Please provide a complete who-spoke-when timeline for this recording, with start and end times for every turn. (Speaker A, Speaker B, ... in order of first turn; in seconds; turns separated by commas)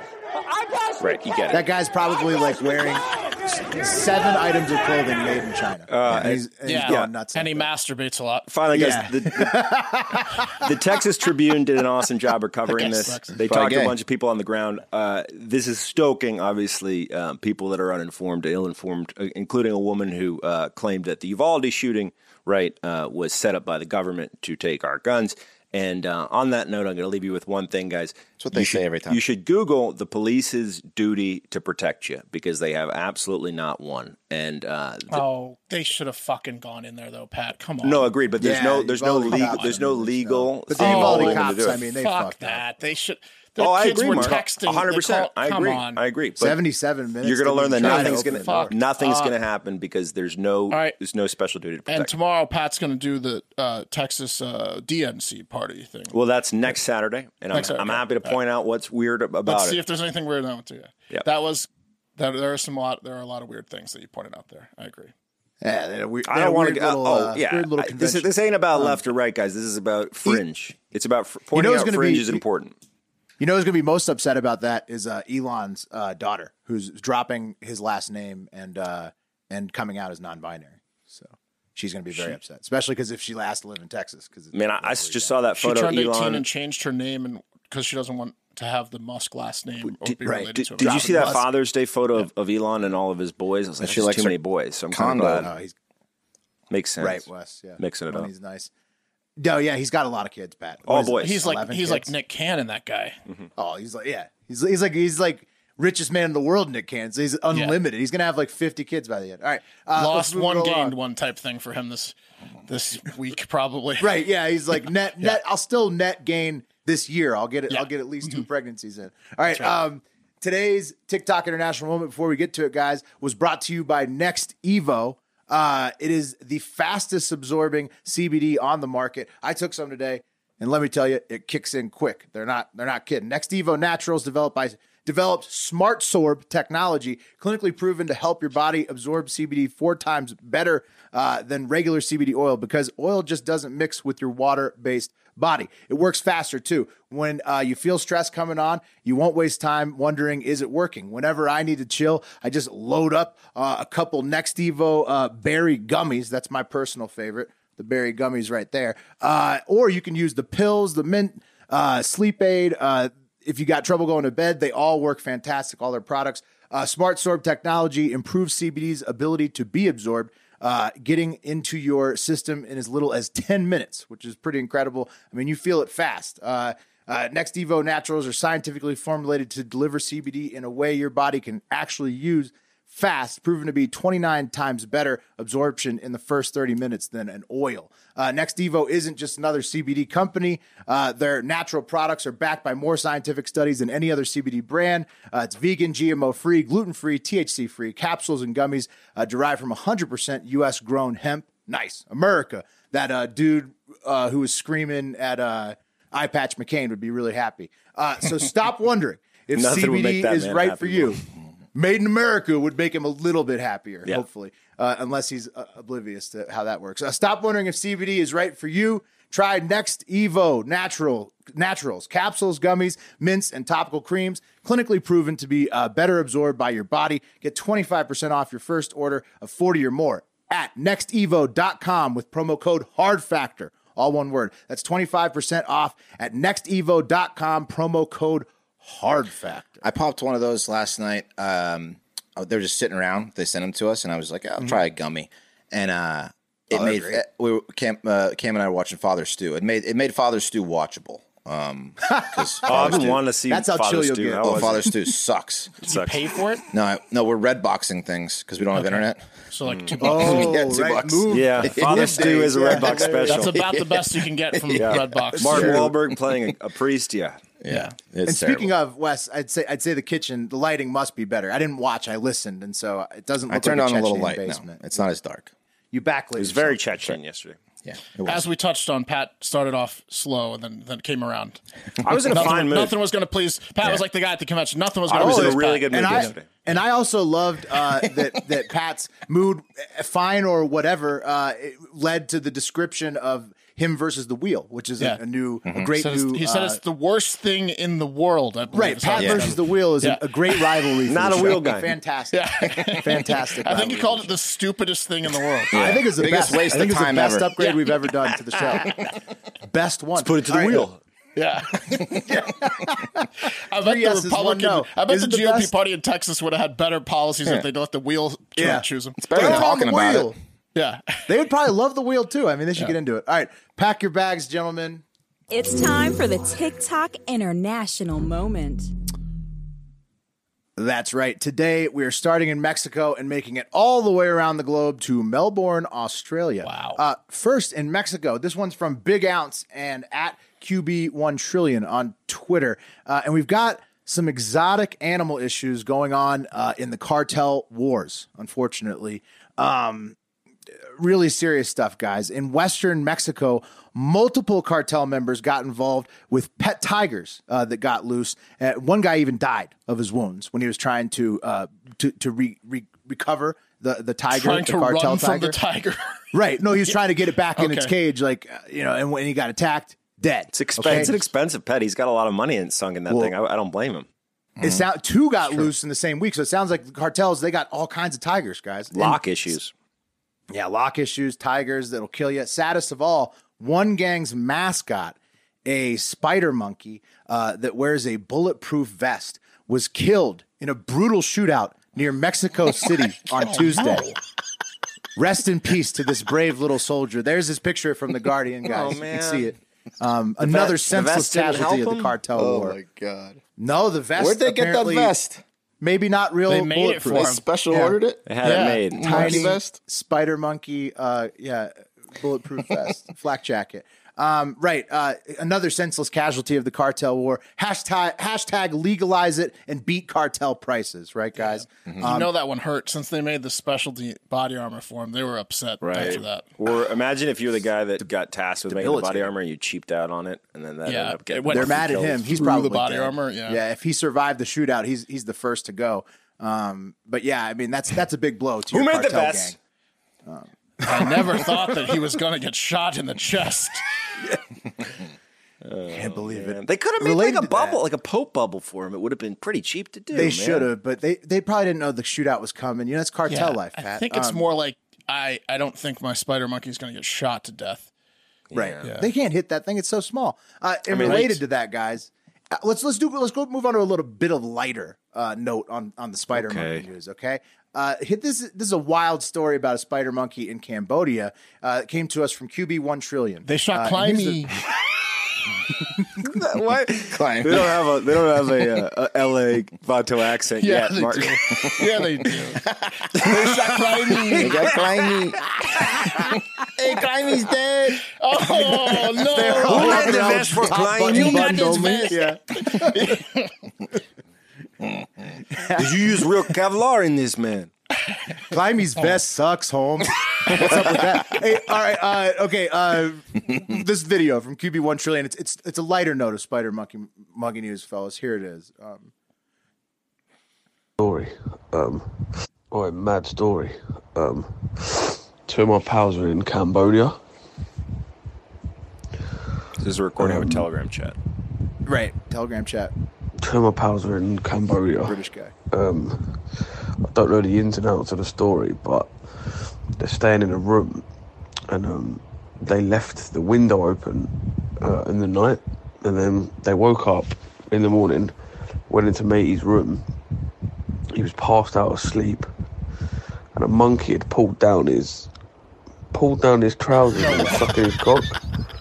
Speaker A: 1.0-1.7, Speaker B: 1.5-7.7, Speaker A: 5.9-7.1, Speaker C: 6.6-8.5, Speaker A: 8.5-9.7, Speaker B: 8.7-10.6, Speaker A: 10.6-35.2, Speaker C: 12.7-13.3, Speaker D: 13.4-13.9, Speaker D: 28.4-29.2, Speaker C: 35.1-38.1, Speaker A: 37.8-41.9, Speaker B: 38.4-42.6, Speaker C: 39.3-39.8, Speaker C: 40.8-46.0, Speaker A: 43.6-46.6, Speaker B: 46.4-48.7, Speaker A: 47.2-52.1, Speaker C: 47.8-49.3, Speaker C: 50.7-51.0, Speaker C: 51.9-56.1, Speaker A: 56.1-59.8, Speaker C: 57.5-58.4, Speaker C: 59.5-65.1, Speaker B: 65.6-69.0, Speaker A: 66.2-72.7, Speaker B: 71.5-72.4, Speaker B: 73.4-85.4, Speaker A: 84.5-86.5, Speaker C: 85.6-91.2, Speaker A: 90.1-95.5, Speaker B: 90.2-91.5, Speaker D: 93.8-94.4, Speaker D: 94.9-95.5, Speaker B: 95.3-95.7, Speaker A: 96.7-97.3, Speaker B: 97.0-98.7, Speaker A: 97.8-98.3, Speaker B: 99.4-102.1, Speaker A: 100.9-101.4, Speaker C: 101.2-103.2, Speaker B: 103.6-110.9, Speaker C: 107.5-107.8, Speaker C: 110.0-112.1, Speaker C: 112.7-114.1, Speaker B: 114.0-211.2, Speaker C: 117.7-118.4, Speaker A: 209.6-211.2, Speaker B: 211.7-239.8, Speaker D: 239.8-253.2, Speaker B: 246.7-247.2, Speaker B: 252.1-254.9, Speaker A: 252.6-254.9, Speaker D: 254.4-255.7, Speaker C: 255.8-256.7, Speaker A: 255.8-256.2, Speaker D: 256.7-259.2, Speaker C: 258.7-260.6, Speaker D: 260.0-264.8, Speaker B: 260.0-263.3, Speaker A: 261.3-263.6, Speaker C: 263.1-265.9, Speaker A: 264.7-267.4, Speaker B: 265.4-265.9, Speaker D: 265.6-265.9, Speaker D: 267.6-268.7, Speaker C: 267.7-267.9, Speaker B: 268.3-274.8, Speaker D: 273.5-275.5, Speaker B: 275.9-276.8, Speaker A: 276.4-277.6, Speaker D: 277.8-278.4, Speaker C: 278.2-281.6, Speaker A: 282.0-282.9, Speaker C: 282.3-286.4, Speaker A: 285.1-286.6, Speaker B: 285.1-296.8, Speaker C: 295.8-300.9, Speaker B: 298.7-304.3, Speaker D: 299.1-299.5, Speaker A: 301.1-301.9, Speaker C: 302.3-305.8, Speaker D: 305.7-307.5, Speaker B: 305.7-310.9, Speaker C: 307.6-307.9, Speaker A: 310.2-311.0, Speaker C: 311.4-312.1, Speaker B: 311.9-315.7, Speaker C: 313.7-319.6, Speaker B: 318.6-320.3, Speaker D: 319.2-320.3, Speaker C: 320.7-321.3, Speaker B: 321.3-325.0, Speaker E: 325.5-328.9, Speaker B: 330.8-350.2, Speaker C: 336.6-337.0, Speaker B: 350.9-365.6, Speaker C: 364.3-366.2, Speaker B: 366.3-371.2, Speaker C: 367.6-367.9, Speaker A: 370.5-374.1, Speaker D: 374.6-374.8, Speaker B: 374.6-379.2, Speaker A: 378.9-379.7, Speaker B: 380.5-394.1, Speaker C: 393.4-394.2, Speaker B: 395.2-402.8, Speaker A: 398.6-399.5, Speaker A: 400.4-402.2, Speaker D: 402.3-403.4, Speaker B: 403.6-405.2, Speaker D: 404.2-405.4, Speaker B: 405.8-408.0, Speaker C: 406.5-407.4, Speaker D: 407.1-409.8, Speaker A: 408.3-409.4, Speaker C: 408.4-409.5, Speaker B: 409.0-422.3, Speaker C: 422.0-426.5, Speaker A: 425.8-432.4, Speaker B: 428.6-429.3, Speaker C: 430.9-433.6, Speaker B: 431.5-439.6, Speaker A: 438.7-439.6, Speaker B: 440.3-441.8, Speaker C: 440.8-443.8, Speaker A: 445.6-450.7, Speaker B: 445.9-447.8, Speaker B: 450.1-454.4, Speaker C: 453.3-457.9, Speaker A: 458.5-458.8, Speaker B: 458.6-474.6, Speaker C: 458.8-459.1, Speaker A: 460.9-461.3, Speaker C: 461.0-461.4, Speaker A: 466.3-466.9, Speaker C: 473.4-474.5, Speaker A: 476.2-481.7, Speaker D: 477.0-477.8, Speaker C: 480.6-482.7, Speaker D: 482.6-483.7, Speaker C: 483.2-484.7, Speaker D: 484.3-488.1, Speaker C: 488.0-493.5, Speaker B: 489.3-493.2, Speaker A: 489.6-492.0, Speaker B: 495.5-496.2, Speaker A: 495.7-497.7, Speaker B: 498.5-509.1, Speaker F: 511.0-512.2, Speaker F: 512.7-517.2, Speaker A: 519.8-521.2, Speaker F: 520.2-520.7, Speaker B: 521.8-522.9, Speaker F: 523.4-525.2, Speaker B: 525.0-525.5, Speaker F: 525.7-526.4, Speaker F: 527.1-531.0, Speaker F: 531.7-538.3, Speaker F: 538.9-540.0, Speaker F: 541.1-542.5, Speaker F: 543.5-545.3, Speaker F: 546.1-548.4, Speaker C: 547.1-547.6